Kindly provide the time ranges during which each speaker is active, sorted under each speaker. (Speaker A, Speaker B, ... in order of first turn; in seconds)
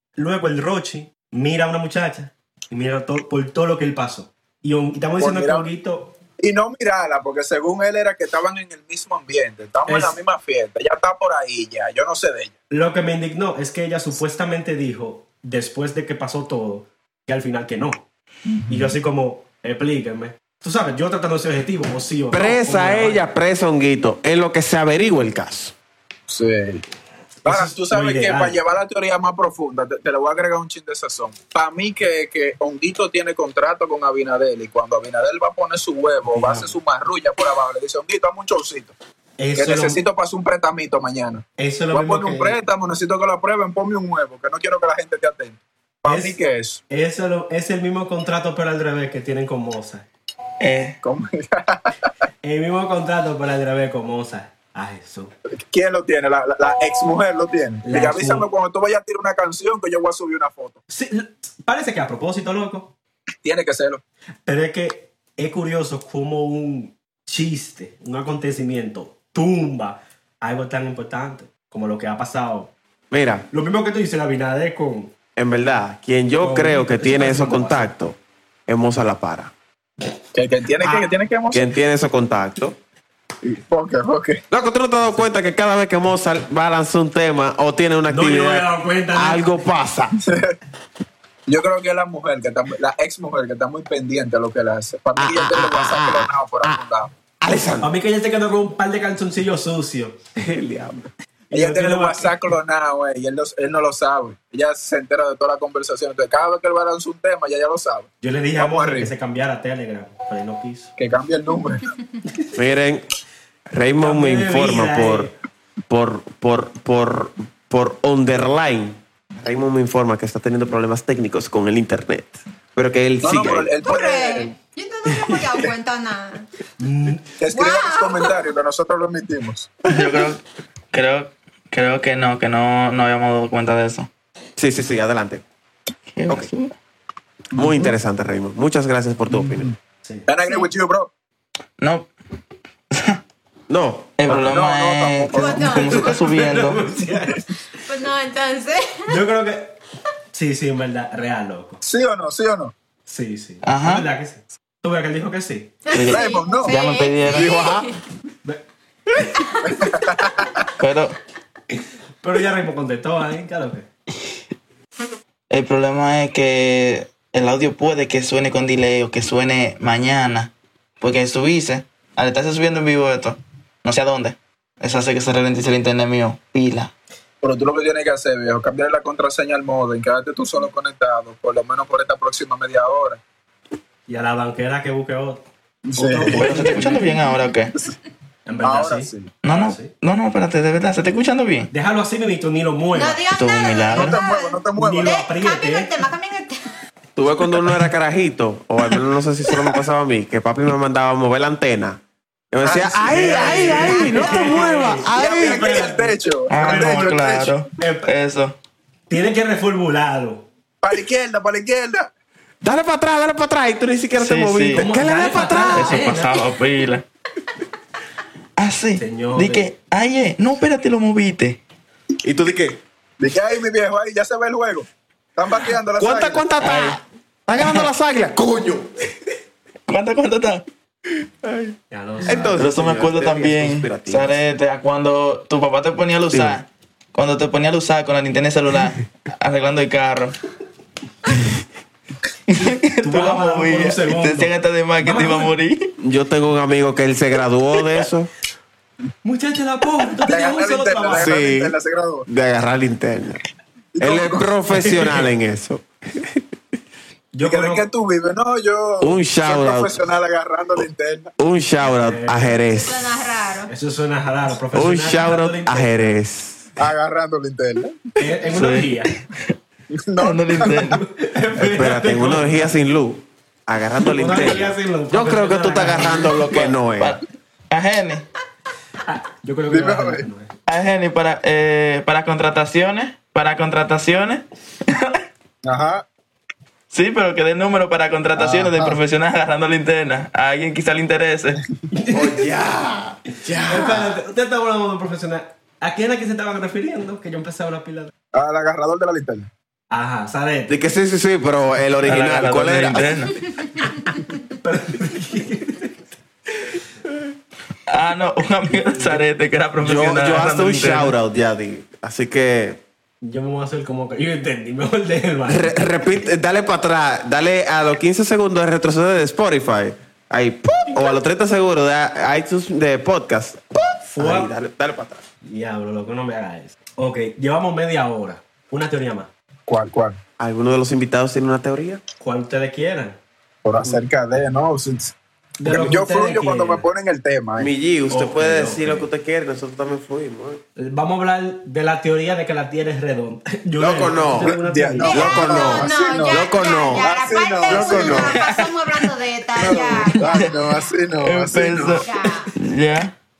Speaker A: 0.1-6.2, 9.9-10.2, 12.7-18.0, 18.7-23.2, 27.4-28.6, 36.3-36.7, 39.4-40.0, 41.6-42.5, 46.0-46.4, 46.9-50.0, 52.4-55.3, 57.8-58.5, 60.9-62.9, 64.5-72.7, 73.5-75.1, 76.4-77.9, 80.8-81.1, 88.1-89.5, 97.8-100.2, 101.5-102.3, 108.2-110.9, 114.0-115.3, 126.8-127.3, 145.7-147.5, 149.1-149.8, 150.3-151.8, 153.1-155.8, 162.2-163.9, 184.1-185.4, 185.9-187.1, 188.4-189.9, 191.7-193.2, 194.7-195.9, 203.0-208.1, 209.1-210.4, 214.7-216.4, 219.0-219.7, 231.9-232.6, 242.6-245.5, 249.2-251.3, 254.7-255.3, 257.3-257.8, 261.8-262.6, 263.7-266.2, 268.2-269.1, 270.9-272.7, 274.0-276.5, 279.0-280.5, 291.9-292.4, 293.6-298.1, 299.9-300.7, 304.6-305.9, 308.9-309.2, 313.2-315.7, 324.1-324.5, 325.4-329.3, 332.2-333.2, 335.6-336.8, 338.1-339.1, 340.8-345.4
Speaker B: 5.2-5.7, 6.4-12.5, 18.5-18.9, 26.3-26.8, 27.4-38.9, 39.5-46.8, 51.0-52.1, 55.5-60.8, 63.4-64.0, 80.3-81.7, 83.4-84.4, 90.2-90.6, 91.5-97.1, 101.5-109.1, 111.0-111.9, 123.2-124.5, 127.4-129.7, 137.5-137.9, 139.3-139.7, 140.2-141.1, 144.3-145.7, 151.8-152.7, 156.0-156.8, 159.7-160.6, 177.4-183.2, 185.8-186.8, 188.6-189.3, 193.9-195.2, 202.6-203.9, 205.1-207.5, 210.8-212.1, 223.2-226.4, 250.2-252.3, 253.9-254.5, 257.4-261.3, 266.8-268.1, 269.9-271.0, 279.7-280.3, 285.6-286.0, 288.3-289.0, 298.3-299.5, 329.7-330.2, 333.6-337.7, 344.4-348.4, 349.6-352.1
Speaker C: 22.3-25.7, 73.1-73.5, 75.3-79.5, 81.5-82.8, 84.5-90.2, 95.2-96.8, 97.4-97.9, 100.4-101.1, 112.5-113.0, 113.7-115.3, 115.9-123.7, 134.6-135.4, 137.5-139.7, 143.7-144.4, 157.3-157.9, 197.2-202.0, 202.5-205.9, 212.6-216.1, 222.2-222.8, 226.0-229.1, 231.4-234.4, 236.3-236.6, 246.0-248.3, 251.1-251.8, 252.3-253.4, 254.0-256.4, 259.0-260.1, 261.4-263.1, 264.7-266.7, 271.6-277.2, 292.1-294.2, 300.7-303.1, 309.8-312.8, 315.5-325.2, 330.4-332.0, 337.6-340.6, 343.8-347.1, 347.6-348.3
Speaker D: 50.6-51.0, 129.8-130.4, 130.9-134.1, 136.2-136.7, 141.8-142.1, 142.9-143.2, 144.2-146.8, 153.6-154.1, 155.9-157.6, 160.8-161.2, 165.5-176.9, 186.2-187.8, 189.4-191.7, 193.3-194.2, 206.5-208.5, 214.2-217.0, 218.6-221.6, 226.6-227.0, 227.6-227.9, 229.9-230.6, 232.3-240.4, 242.5-245.9, 268.5-269.5, 270.2-271.0, 276.3-278.2, 280.7-285.2, 286.9-291.6, 302.0-303.5, 307.9-311.1, 348.3-349.0, 350.0-350.6, 351.2-353.1
Speaker E: 123.8-126.5, 127.5-128.4, 145.3-146.1, 147.8-149.2, 155.8-158.0, 159.3-159.8, 192.9-196.6, 203.7-204.5, 262.7-263.7, 345.0-350.6, 352.0-352.5